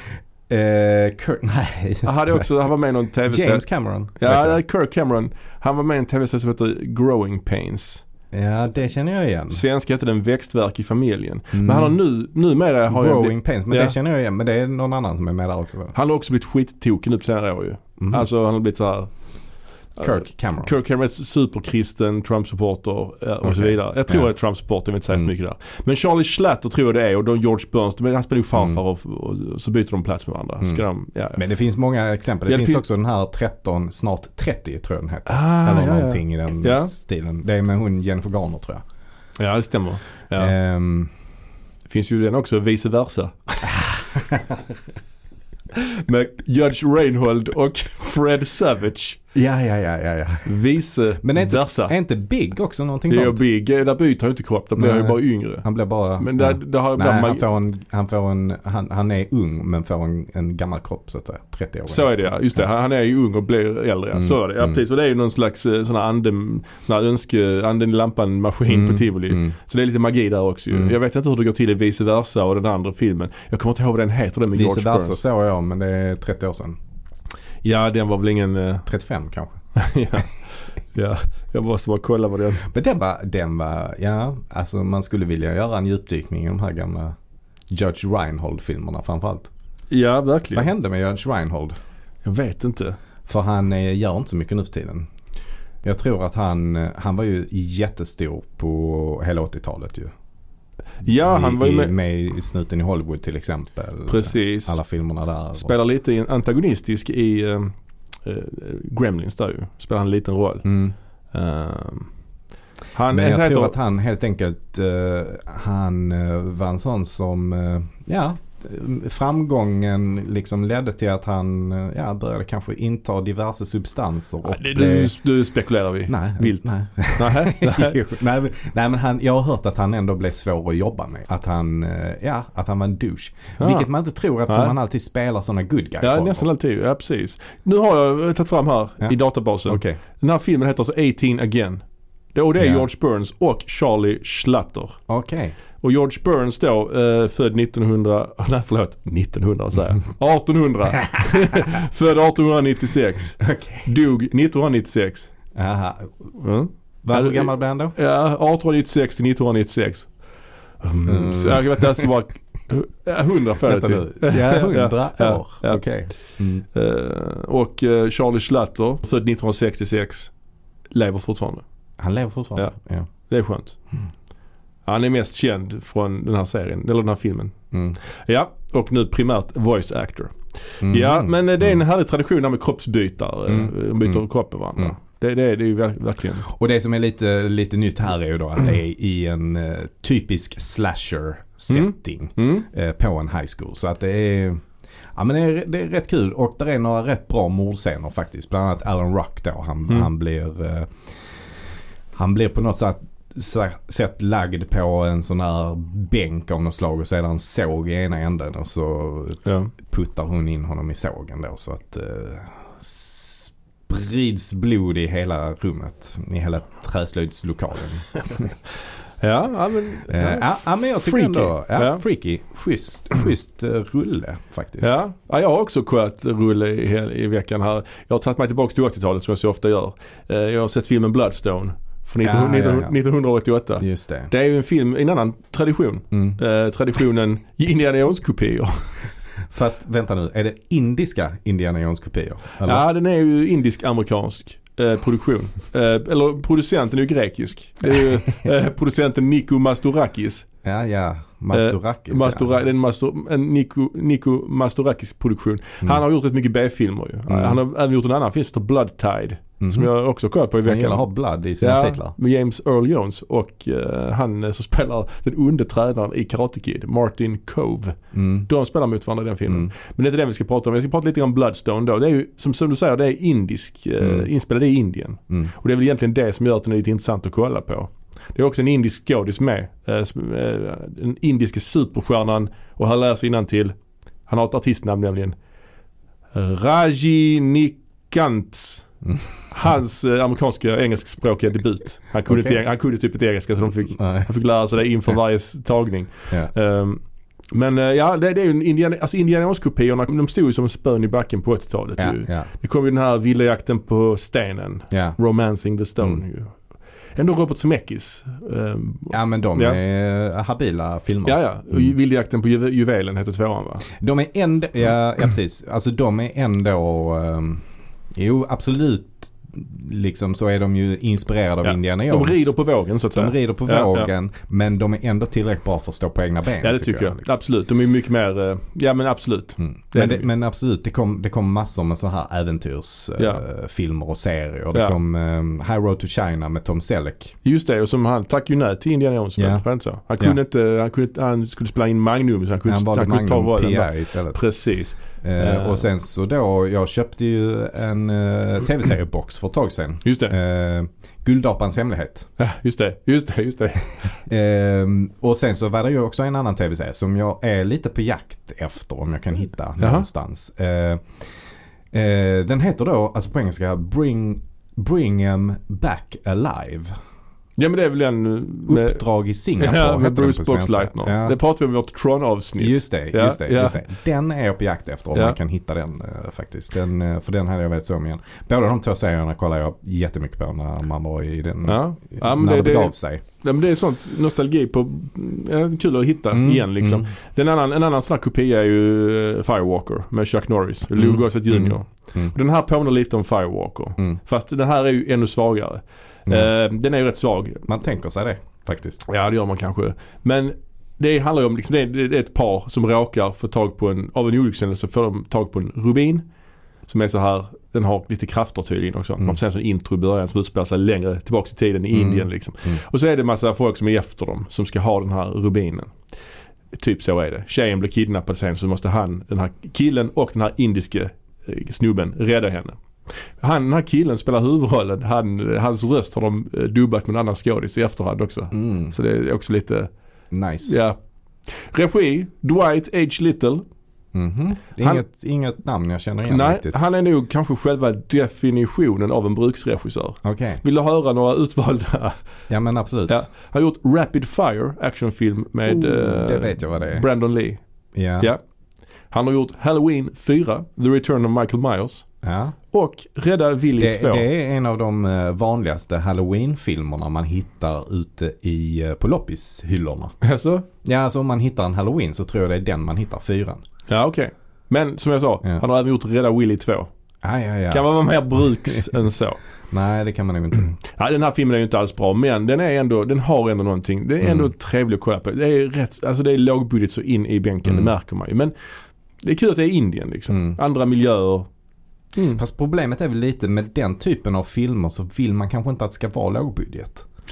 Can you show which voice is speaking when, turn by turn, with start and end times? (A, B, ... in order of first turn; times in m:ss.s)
0:00.5-0:02.4 A
0:02.0-0:08.0 B
0:03.3-0:04.6 A
0:08.3-0:09.6 A
0:09.5-0:14.0 B
0:11.5-0:12.0 A
0:12.9-0:16.0 A
0:15.9-0:31.4 B
0:18.0-0:18.3 A
0:20.0-0:20.7 A
0:23.4-0:24.3 A
0:28.6-0:28.8 A
0:31.4-0:38.8 A
0:32.5-0:32.8 B
0:35.2-0:36.9 B
0:39.4-0:40.6 B
0:40.4-0:41.1 A
0:41.9-0:43.5 B
0:43.6-0:44.7 A
0:45.8-0:49.2 B
0:49.3-0:50.6 A
0:50.4-0:51.9 B
0:51.2-0:53.4 A
0:53.1-0:57.4 B
0:54.8-1:02.6 A
1:01.9-1:15.2 B
1:04.1-1:04.8 A
1:08.7-1:09.6 A
1:14.5-1:16.8 A
1:17.6-1:18.9 B
1:18.8-1:19.6 A
1:19.8-1:22.6 B
1:22.6-1:27.1 A
1:27.7-1:29.5 A
1:29.9-1:30.7 B
1:30.5-1:31.8 A
1:32.2-1:33.0 B
1:33.2-1:35.1 A
1:35.8-1:40.1 A
1:41.0-1:41.9 B
1:41.2-1:45.8 A
1:44.1-1:44.8 B
1:45.6-1:50.7 B
1:50.6-1:51.0 A
1:51.3-1:52.2 B
1:52.9-1:53.8 B
1:53.1-2:05.2 A
2:04.4-2:08.0 B
2:06.1-2:16.5 A
2:13.6-2:13.9 B
2:14.5-2:14.8 B
2:16.0-2:25.0 B
2:19.0-2:20.0 A
2:22.6-2:22.8 A
2:25.1-2:25.6 A
2:25.8-2:35.3 B
2:33.4-2:33.9 A
2:35.6-2:36.4 A
2:36.4-2:50.4 B
2:37.0-2:38.0 A
2:41.1-2:42.1 A
2:43.6-2:46.6 A
2:50.9-2:51.6 B
2:52.0-2:53.1 A
2:52.6-2:53.8 B
2:54.9-3:06.5 B
2:57.7-2:58.0 A
3:00.8-3:01.8 A
3:03.5-3:04.2 A
3:06.4-3:38.6 A
3:11.7-3:12.7 B
3:29.4-3:29.7 B
3:39.2-3:42.0 B
3:40.1-3:45.0 A
3:44.8-3:59.0 B
3:52.2-3:53.0 A
3:53.8-3:54.3 A
3:56.1-3:56.4 A
3:59.5-4:02.8 A
4:02.6-4:10.5 B
4:08.0-4:08.5 A
4:10.6-4:12.5 A
4:11.5-4:45.4 B
4:17.3-4:17.6 A
4:19.6-4:19.9 A
4:20.6-4:22.1 A
4:28.1-4:28.5 A
4:34.0-4:34.3 A
4:46.3-5:09.8 B
4:49.0-4:49.4 A
4:52.2-4:52.6 A
4:53.9-4:54.3 A
5:02.0-5:02.5 A
5:04.9-5:05.2 A
5:09.1-5:11.9 A
5:11.2-5:13.9 B
5:13.9-5:22.5 A
5:21.6-5:24.1 B
5:23.1-5:27.3 A
5:26.6-5:30.3 B
5:29.6-5:37.4 A
5:33.2-5:33.4 B
5:37.4-5:45.8 B
5:39.4-5:39.6 A
5:42.6-5:44.4 A
5:45.0-5:52.3 A
5:50.0-5:50.4 B
5:52.4-5:54.2 B
5:54.2-6:07.0 A
5:59.8-6:00.1 B
6:07.6-6:09.0 B
6:08.7-6:11.4 A
6:09.6-6:13.8 B
6:12.6-6:23.2 A
6:21.6-6:37.6 B
6:26.3-6:27.1 A
6:31.0-6:32.4 A
6:36.3-6:36.5 A
6:37.6-6:39.0 A
6:39.0-6:46.2 B
6:46.9-6:56.1 B
6:51.9-6:52.8 A
6:56.7-7:09.9 B
7:08.5-7:08.9 A
7:10.3-7:10.8 A
7:10.6-7:13.6 B
7:14.1-7:16.8 A
7:16.3-7:22.3 B
7:20.2-7:20.6 A
7:22.5-7:23.3 A
7:23.1-7:27.6 B
7:25.6-7:27.1 A
7:27.9-7:28.3 A
7:29.1-7:32.1 B
7:32.2-7:32.6 A
7:32.7-7:34.2 B
7:33.8-7:40.2 A
7:40.2-7:40.6 B
7:40.8-7:43.6 A
7:43.9-7:46.9 B
7:47.2-7:47.9 A
7:47.7-7:49.4 B
7:49.7-7:50.8 A
7:50.8-7:58.5 B
7:54.2-7:54.5 A
7:59.2-8:01.5 B
8:00.3-8:00.6 A
8:02.1-8:02.4 B
8:02.4-8:07.0 A